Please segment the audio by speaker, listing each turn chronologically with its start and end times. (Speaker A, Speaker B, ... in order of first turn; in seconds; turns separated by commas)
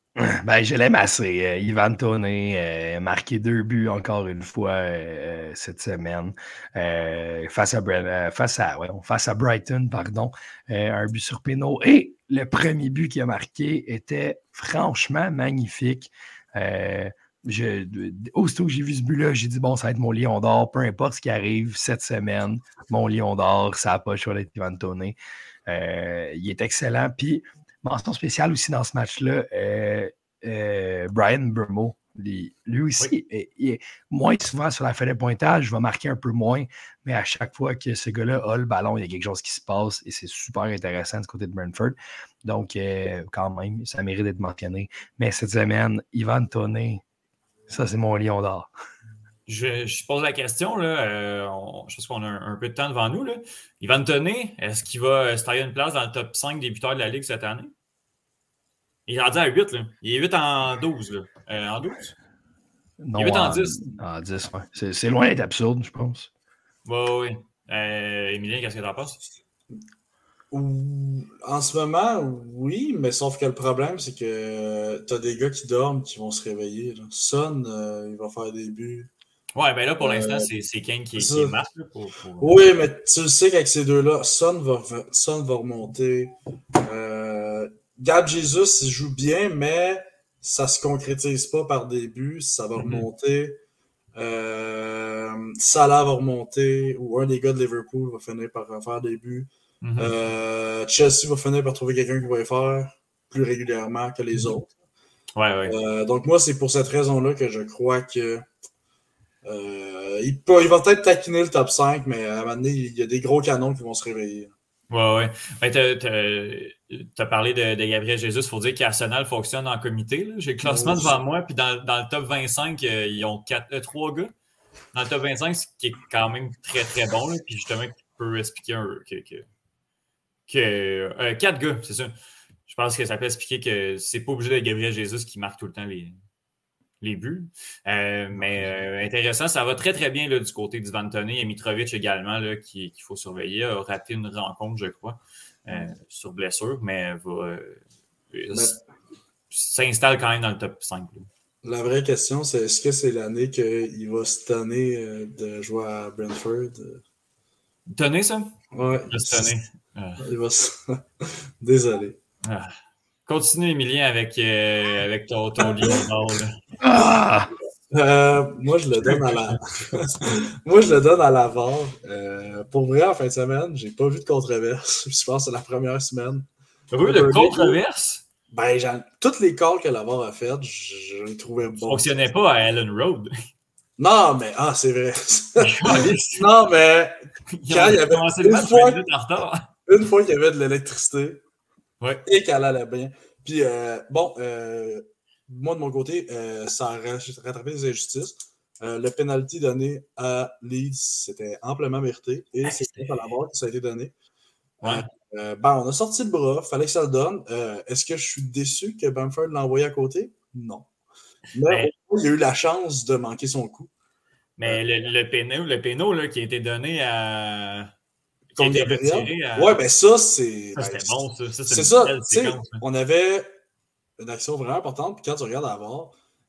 Speaker A: 0.2-25.1, Speaker A: 25.7-47.0, Speaker A: 47.7-48.7, Speaker B: 49.5-57.7, Speaker B: 59.1-62.1, Speaker A: 63.0-66.3, Speaker B: 63.2-63.9, Speaker B: 66.8-69.2, Speaker C: 70.5-79.1, Speaker B: 79.6-82.6, Speaker C: 80.0-80.5, Speaker C: 81.2-81.5, Speaker C: 82.4-93.6, Speaker B: 92.8-93.1, Speaker C: 94.2-104.7, Speaker B: 99.8-100.1, Speaker B: 105.4-105.8, Speaker C: 105.7-108.5, Speaker C: 109.5-114.5, Speaker B: 114.9-124.3, Speaker C: 120.6-121.2, Speaker B: 124.9-129.5, Speaker B: 130.5-132.1, Speaker B: 132.7-136.2, Speaker B: 137.0-147.8, Speaker B: 148.3-148.8, Speaker C: 148.5-148.8, Speaker B: 149.5-151.3, Speaker C: 151.6-157.0, Speaker B: 157.9-158.5, Speaker C: 158.7-159.5, Speaker B: 159.1-160.2, Speaker C: 160.2-162.2, Speaker B: 162.5-162.7, Speaker B: 163.3-166.5, Speaker C: 165.6-166.1, Speaker A: 166.8-167.5, Speaker C: 167.9-176.5, Speaker B: 169.0-169.9, Speaker B: 176.9-178.2, Speaker C: 177.0-177.8, Speaker C: 178.5-182.1, Speaker B: 181.9-183.3, Speaker C: 184.0-187.1, Speaker B: 185.6-186.5, Speaker B: 187.6-189.7, Speaker C: 187.7-189.0, Speaker C: 189.9-191.4, Speaker C: 192.3-204.1, Speaker B: 202.6-203.2, Speaker C: 204.8-210.9, Speaker C: 211.5-213.9, Speaker B: 214.6-217.9, Speaker B: 218.6-219.8, Speaker C: 218.6-223.5, Speaker B: 220.8-222.8, Speaker C: 224.2-226.1